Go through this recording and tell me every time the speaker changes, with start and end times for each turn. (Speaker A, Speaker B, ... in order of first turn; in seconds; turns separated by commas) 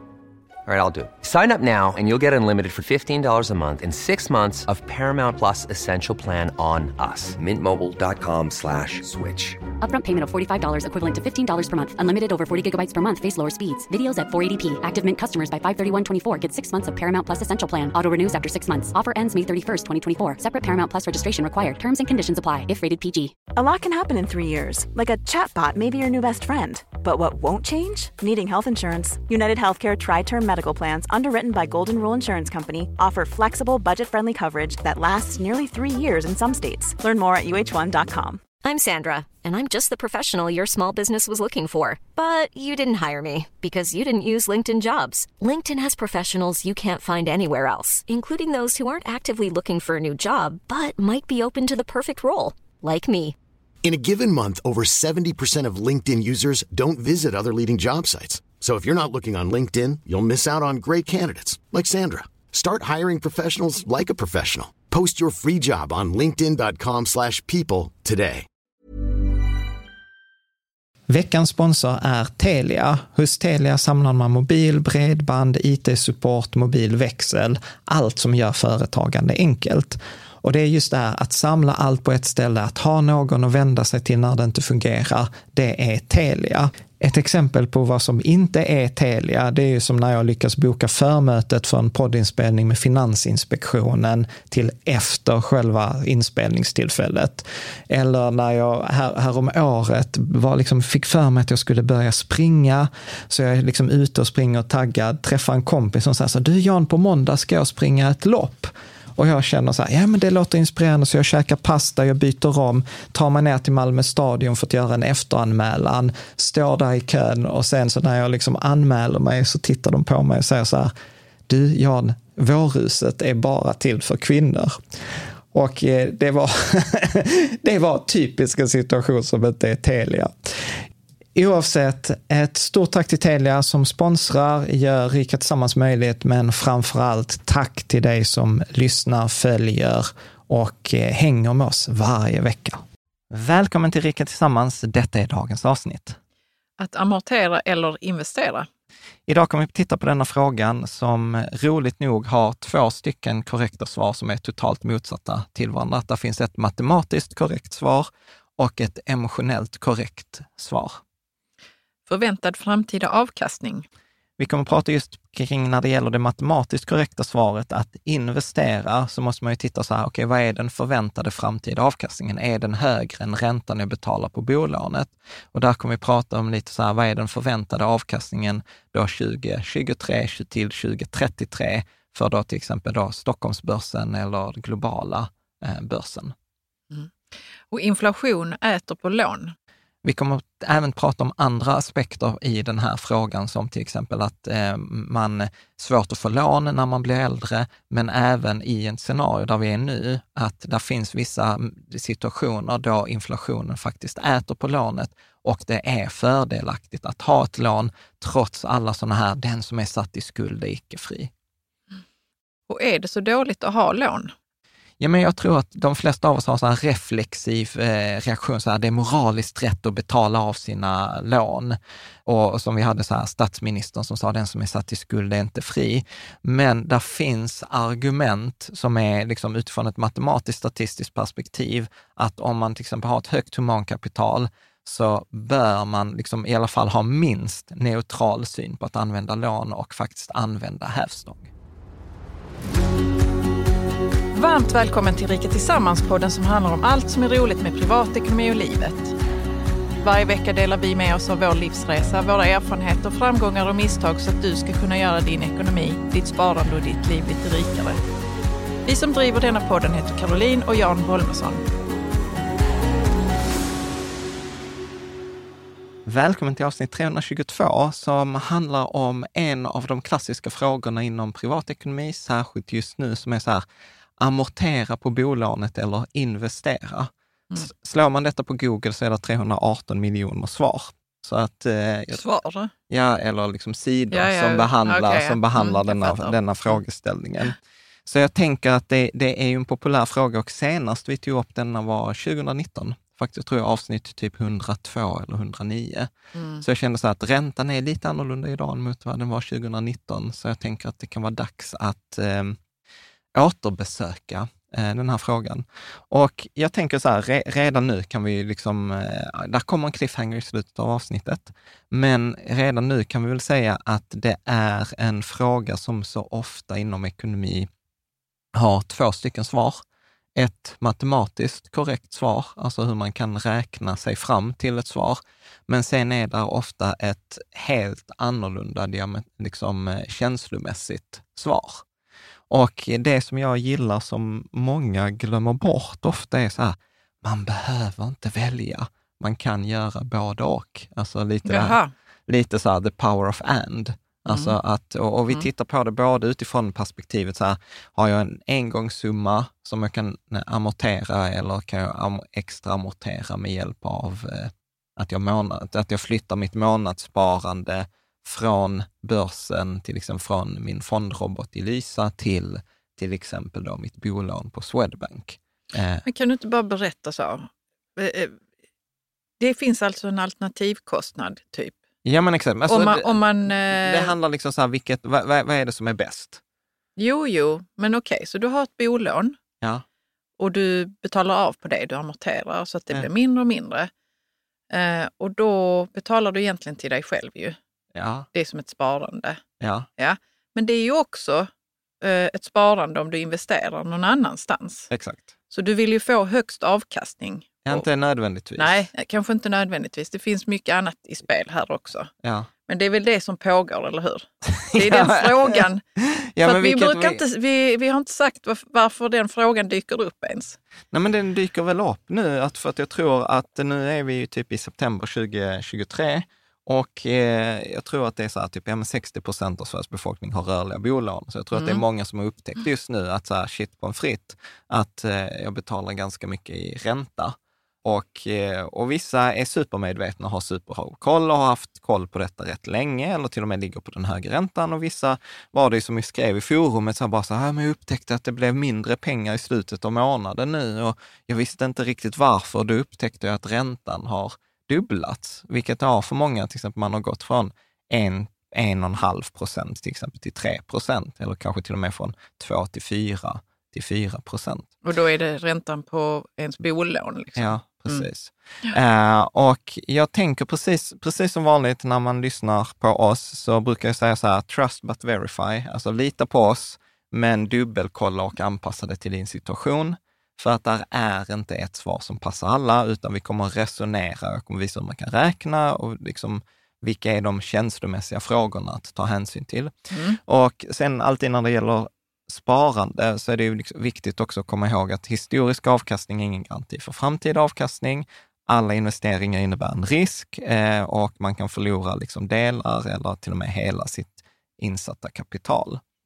Speaker A: 0.7-9.6, Speaker B: 9.8-23.3, Speaker C: 23.6-38.4, Speaker D: 38.6-53.4, Speaker E: 53.8-68.5, Speaker F: 71.1-120.9, Speaker F: 121.5-124.8, Speaker F: 125.5-130.8, Speaker F: 131.3-146.2, Speaker G: 146.8-148.7, Speaker F: 149.3-161.0, Speaker G: 162.1-163.8, Speaker F: 164.4-186.3, Speaker G: 187.7-189.5, Speaker F: 190.0-211.3, Speaker G: 212.7-214.3, Speaker F: 215.0-241.5, Speaker G: 244.3-249.1, Speaker G: 250.0-258.0, Speaker G: 258.9-261.6, Speaker F: 266.1-273.6, Speaker F: 274.2-282.2, Speaker G: 282.1-282.7, Speaker F: 282.9-296.1, Speaker G: 284.1-286.8, Speaker G: 296.3-296.6, Speaker F: 296.6-302.6, Speaker F: 303.3-317.7, Speaker F: 318.5-319.8, Speaker F: 320.3-331.8, Speaker F: 332.5-366.0, Speaker G: 341.4-341.9, Speaker G: 344.3-344.6, Speaker G: 366.0-368.4, Speaker G: 369.4-371.8, Speaker F: 372.0-376.4, Speaker G: 372.7-374.1, Speaker G: 377.0-379.4, Speaker G: 380.4-383.9, Speaker G: 384.7-387.6, Speaker F: 387.9-388.3, Speaker G: 388.3-389.4, Speaker F: 389.6-389.9, Speaker G: 390.0-391.5, Speaker G: 392.0-394.9, Speaker F: 394.9-395.3, Speaker G: 395.5-397.8, Speaker F: 397.6-398.9, Speaker G: 398.6-402.1, Speaker F: 402.2-402.5, Speaker G: 402.7-405.8, Speaker F: 404.4-407.2, Speaker G: 406.4-410.6, Speaker F: 410.9-454.7, Speaker G: 421.5-421.8, Speaker G: 454.8-458.1, Speaker F: 457.4-495.8, Speaker G: 479.9-480.2